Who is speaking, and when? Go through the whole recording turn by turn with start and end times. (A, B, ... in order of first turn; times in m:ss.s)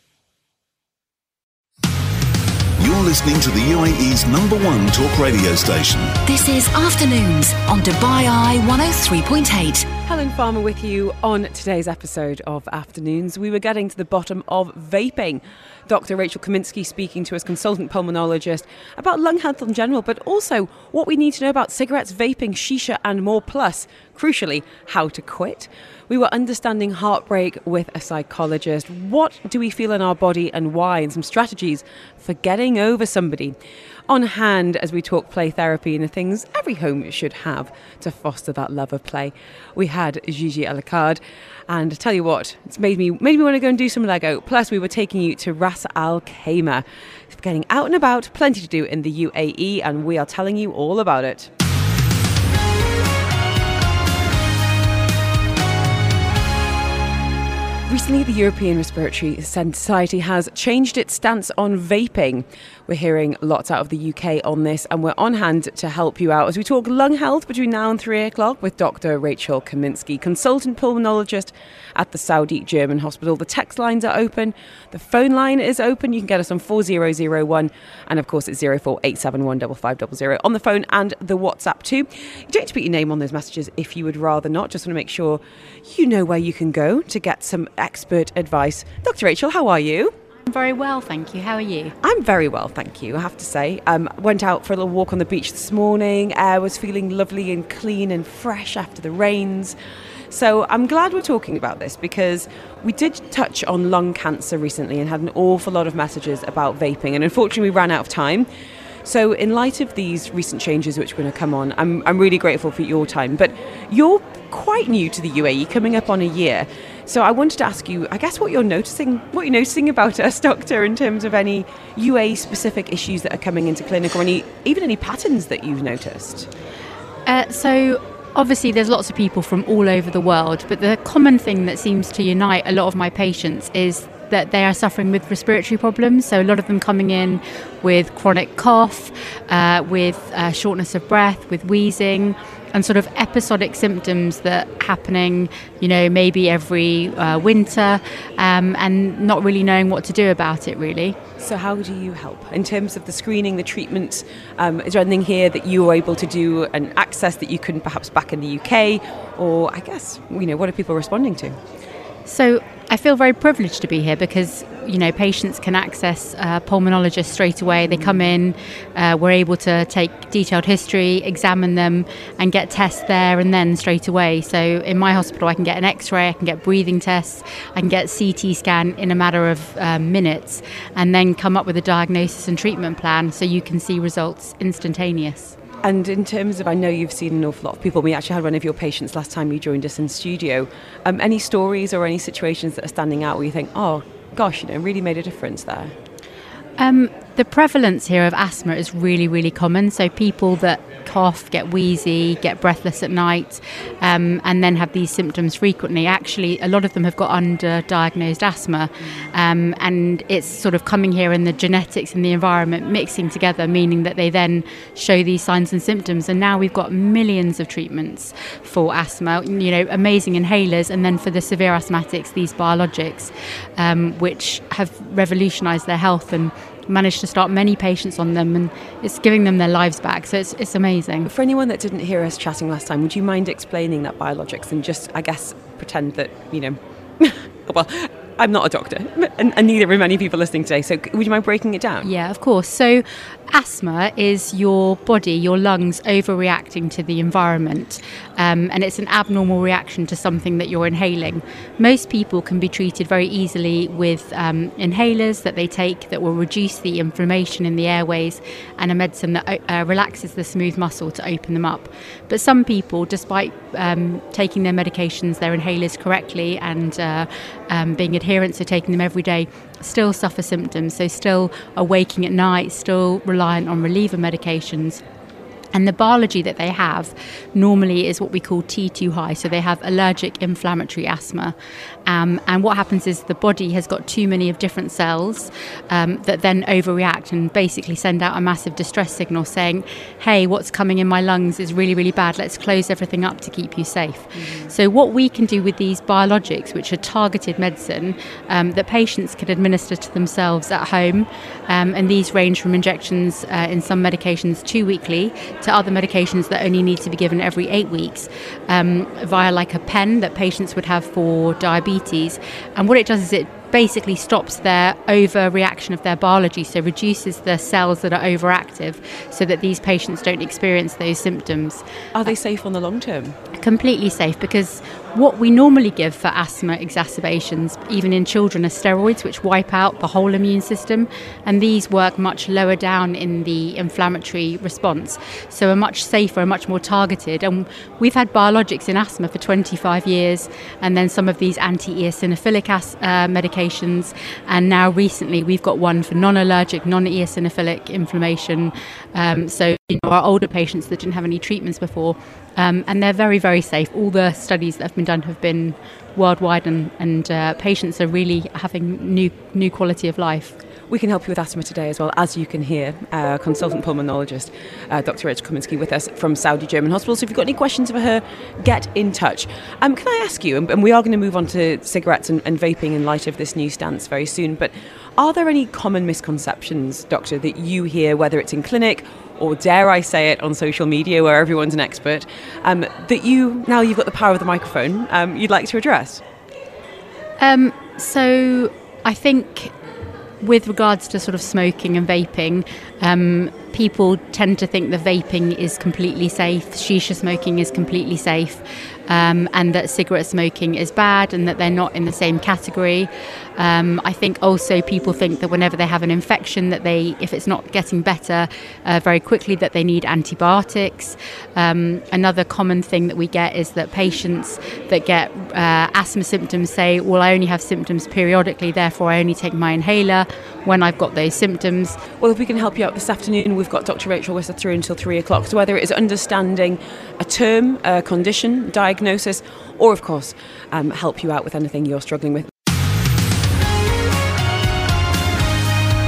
0:02.8-0:06.2 A
0:06.3-0:09.9 B
0:10.1-0:33.6 C
0:34.1-0:51.5 C
0:57.9-1:30.1 C
1:30.5-1:31.9 D
1:32.0-1:39.8 C
1:40.3-1:48.5 C
1:49.0-2:06.5 C
2:07.3-2:31.2 D
2:31.4-2:41.6 C
2:42.3-3:05.6 D
3:05.8-3:15.9 C
3:16.8-3:51.3 D
3:51.3-4:02.1 C
4:02.0-4:35.0 D
4:35.7-4:41.5 D
4:42.1-5:21.8 D
4:54.4-4:54.7 C
5:22.2-5:23.4 C
5:23.6-6:00.5 D
6:00.9-6:26.2 C
6:27.4-6:29.7 D
6:30.4-7:02.0 D
7:02.2-7:12.5 C